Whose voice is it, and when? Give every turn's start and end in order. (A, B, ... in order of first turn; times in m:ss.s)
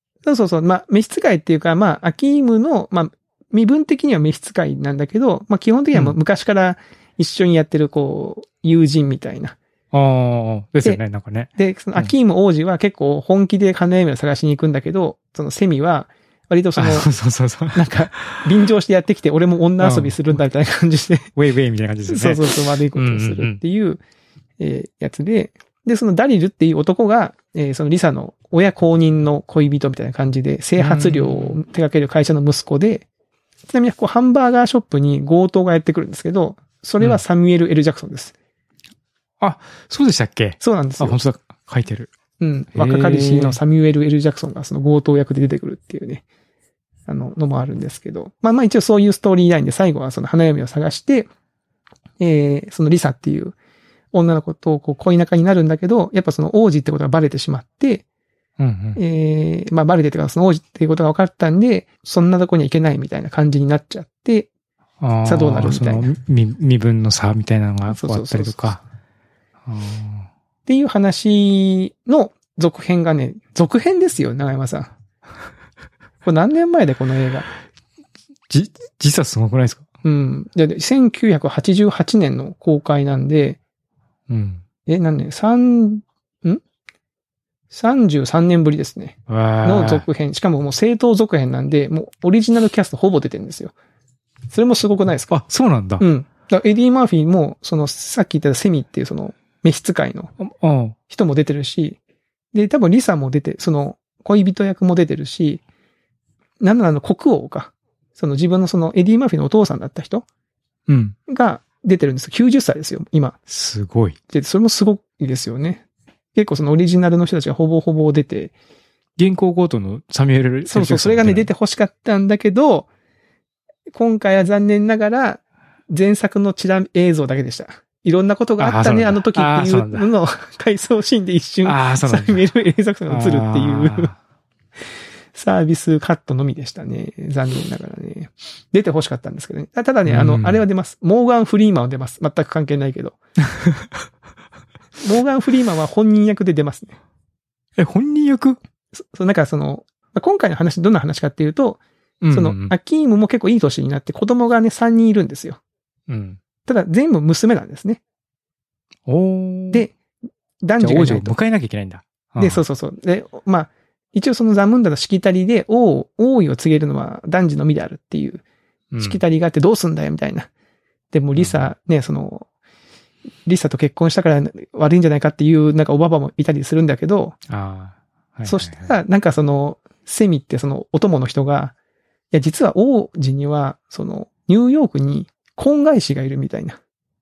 0:00.2-0:09.6 A
0:09.9-0:12.1 B
0:11.6-0:17.1 A
0:16.8-0:18.4 B
0:17.7-0:21.3 A
0:19.8-0:20.4 B
0:21.3-0:23.6 B
0:22.1-0:24.0 A
0:24.6-0:33.0 A
0:30.8-0:31.6 B
0:33.7-0:38.3 A
0:39.4-0:42.1 B
0:40.6-0:41.2 A
0:42.4-0:46.2 A
0:42.7-0:43.6 B
0:47.1-0:51.3 A
0:52.2-0:53.6 A
0:54.1-0:58.0 A
0:58.6-0:59.0 B
0:59.0-1:04.5 A
1:05.0-1:08.8 B
1:05.2-1:06.1 A
1:07.9-1:08.7 A
1:09.7-1:10.3 B
1:10.7-1:14.9 A
1:16.2-1:17.5 A
1:18.5-1:19.8 B
1:20.0-1:23.6 A
1:24.3-1:24.6 B
1:24.8-1:26.6 A
1:27.7-1:33.7 A
1:29.3-1:30.0 B
1:34.5-1:35.3 A
1:35.3-1:36.0 B
1:36.0-1:40.3 A
1:40.4-1:41.0 B
1:41.1-1:42.0 A
1:42.5-1:45.6 A
1:46.6-1:50.2 A
1:50.9-1:51.2 B
1:51.3-1:53.4 A
1:53.5-1:54.2 B
1:54.3-1:55.8 A
1:56.3-1:58.5 A
1:59.2-2:01.5 B
2:00.6-2:02.9 A
2:03.9-2:14.1 A
2:08.6-2:10.1 B
2:11.6-2:12.4 B
2:13.1-2:14.2 B
2:15.3-2:23.2 A
2:20.0-2:20.6 B
2:23.6-2:23.8 B
2:25.0-2:27.0 A
2:27.8-2:28.6 B
2:29.0-2:31.8 A
2:32.2-2:32.7 B
2:32.3-2:35.6 A
2:36.1-2:36.4 B
2:36.6-2:38.0 A
2:39.1-2:39.9 B
2:40.6-2:41.3 A
2:40.8-2:42.6 B
2:42.4-2:48.4 A
2:48.9-2:49.2 B
2:49.0-2:50.5 A
2:51.1-2:52.5 A
2:51.3-2:51.7 B
2:53.4-2:57.4 A
2:57.5-2:58.9 B
2:58.4-3:01.7 A
3:02.3-3:06.8 A